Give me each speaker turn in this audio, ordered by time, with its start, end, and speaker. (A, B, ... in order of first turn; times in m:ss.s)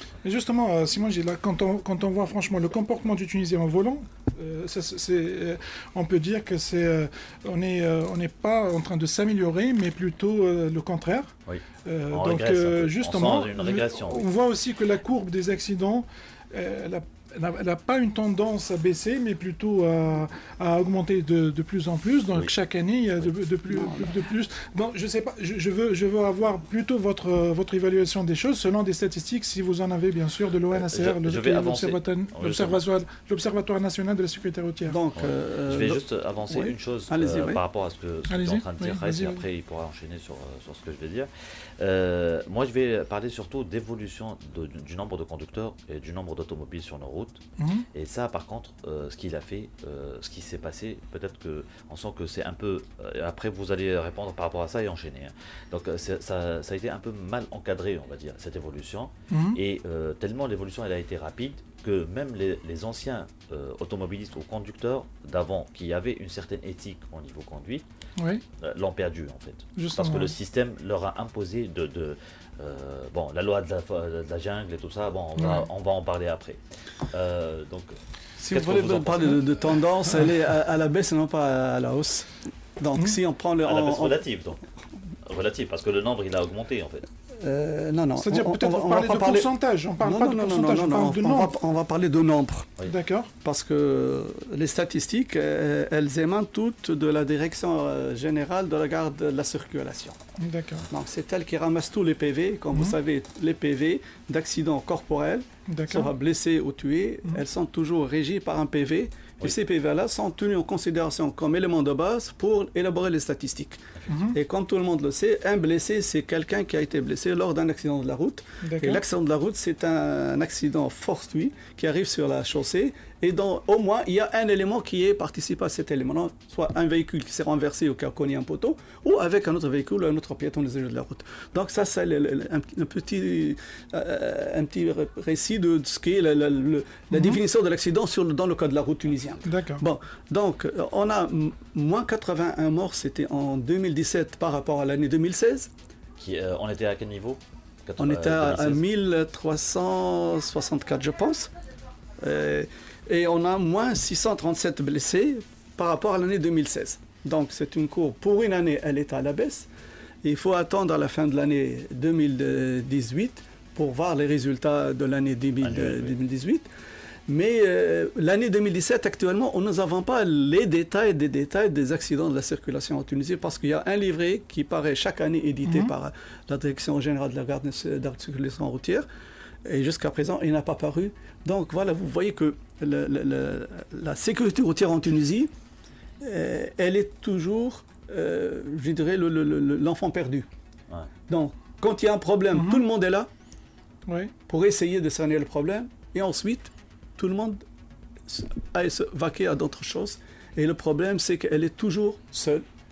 0:00.2-0:11.3 A
0:11.5-0:14.2 B
0:11.8-0:35.0 A
0:23.7-0:24.1 C
0:30.7-0:32.8 B
0:34.8-0:37.6 C
0:35.2-0:47.4 B
0:38.3-0:39.4 A
0:47.6-0:47.9 A
0:47.9-1:07.8 B
0:59.3-0:59.6 A
1:08.2-1:08.4 A
1:08.6-1:17.9 B
1:09.8-1:10.3 A
1:15.4-1:15.6 A
1:18.4-1:24.2 C
1:18.4-1:19.4 B
1:23.6-1:24.6 B
1:25.2-1:27.1 B
1:27.4-1:32.7 C
1:28.2-1:31.5 A
1:32.8-1:33.3 A
1:33.4-1:40.2 C
1:40.4-1:40.8 A
1:40.9-2:25.7 C
1:45.7-1:46.1 A
1:54.1-1:54.4 A
1:58.6-1:59.0 A
2:17.1-2:17.4 A
2:19.4-2:19.8 A
2:26.2-2:28.8 B
2:28.0-2:31.5 C
2:32.2-2:39.7 C
2:40.2-2:46.7 C
2:45.6-2:46.2 B
2:47.3-2:59.0 C
2:55.6-2:55.9 A
2:59.6-3:05.5 C
3:06.2-3:10.5 C
3:11.3-3:13.3 C
3:12.5-3:12.8 A
3:14.1-3:14.3 A
3:14.5-3:17.6 C
3:18.3-3:22.6 C